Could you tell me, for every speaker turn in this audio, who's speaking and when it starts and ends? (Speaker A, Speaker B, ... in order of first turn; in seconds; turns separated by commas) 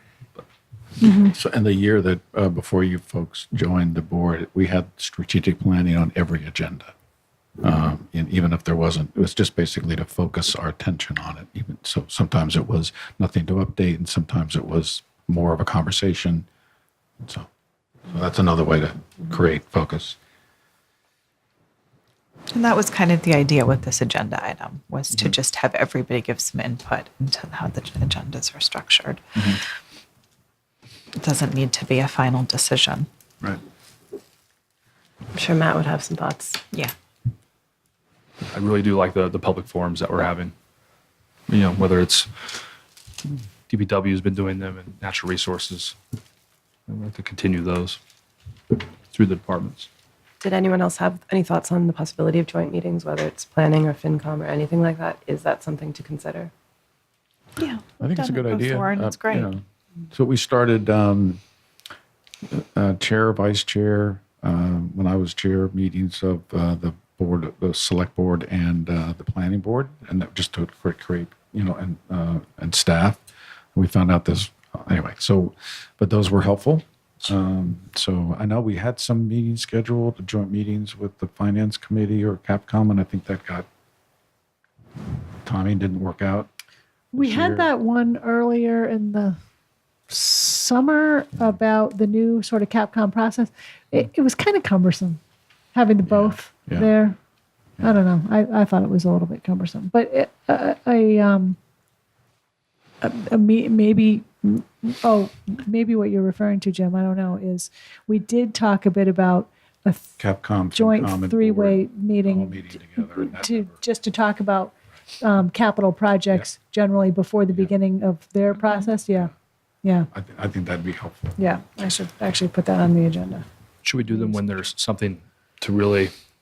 Speaker A: 1.0-1.3, Speaker B: 1.2-6.9, Speaker B: 7.6-16.5, Speaker B: 17.2-17.5, Speaker B: 18.1-20.2, Speaker C: 22.5-29.2, Speaker C: 31.1-33.1, Speaker D: 35.3-36.6, Speaker E: 38.5-40.5, Speaker E: 41.5-42.3, Speaker E: 43.7-45.9, Speaker E: 46.9-48.0, Speaker E: 49.1-49.9, Speaker D: 50.4-56.5, Speaker C: 57.6-59.5, Speaker B: 58.0-61.4, Speaker B: 62.5-73.2, Speaker B: 73.7-83.7, Speaker B: 85.4-86.5, Speaker A: 87.1-89.4, Speaker B: 87.2-87.7, Speaker A: 90.1-95.2, Speaker A: 95.7-97.2, Speaker B: 96.1-96.9, Speaker A: 97.8-101.6, Speaker A: 103.0-110.1, Speaker B: 110.2-113.7, Speaker A: 110.7-119.3, Speaker A: 119.8-120.1, Speaker B: 120.1-121.3, Speaker A: 121.4-123.4, Speaker E: 123.8-126.1, Speaker A: 124.1-124.5